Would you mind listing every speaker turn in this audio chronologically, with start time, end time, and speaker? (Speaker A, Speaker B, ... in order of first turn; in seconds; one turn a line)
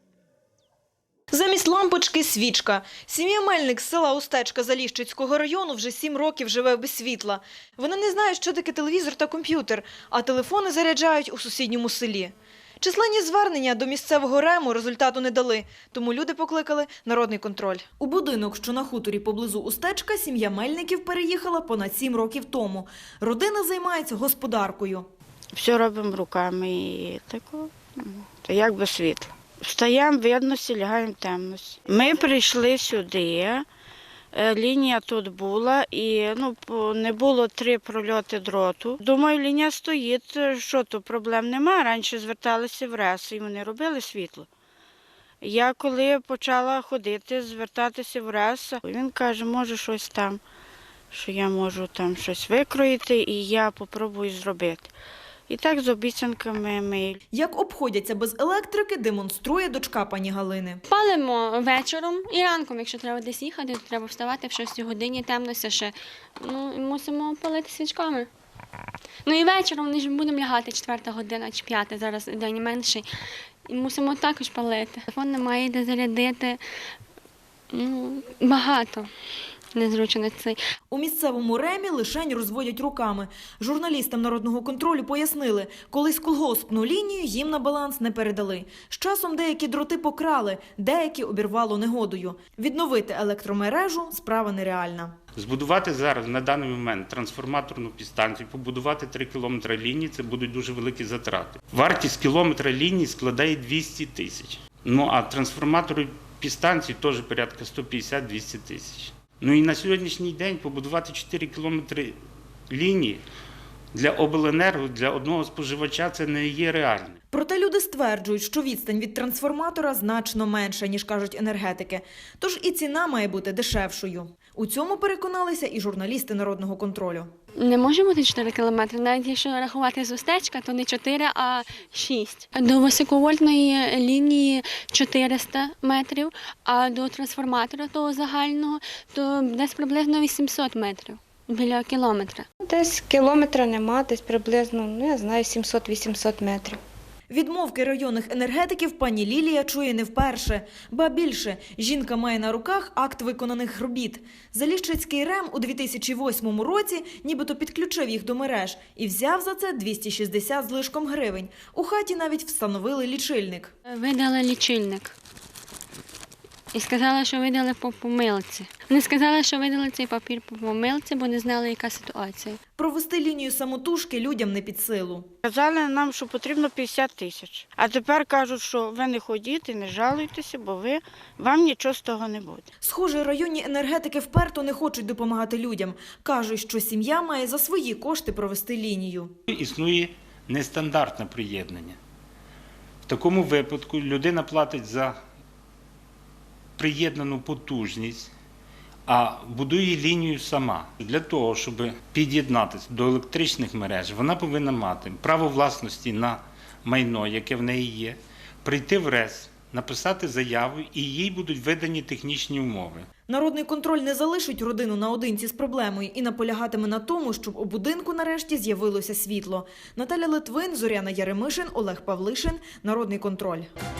Speaker A: 1.3-25.1
Speaker B: 25.5-33.7
Speaker B: 34.3-44.5
Speaker B: 45.4-50.4
Speaker B: 51.1-54.9
Speaker B: 55.5-57.2
Speaker A: 57.3-60.8
Speaker C: 60.9-68.3
Speaker C: 69.3-73.0
Speaker C: 73.7-76.6
Speaker C: 77.7-79.1
Speaker C: 79.8-80.6
Speaker A: 80.9-95.2
Speaker D: 95.4-112.2
Speaker D: 112.7-113.2
Speaker D: 113.9-117.2
Speaker A: 117.3-127.3
Speaker C: 127.6-142.5
Speaker E: 142.6-146.8
Speaker A: 147.3-163.7
Speaker C: 163.9-165.2
Speaker C: 166.7-172.6
Speaker A: 172.8-175.3
Speaker B: 175.4-182.7
Speaker A: 182.8-189.3
Speaker D: 189.5-192.0
Speaker D: 193.1-195.2
Speaker D: 196.8-198.3
Speaker D: 199.1-213.1
Speaker A: 213.3-223.7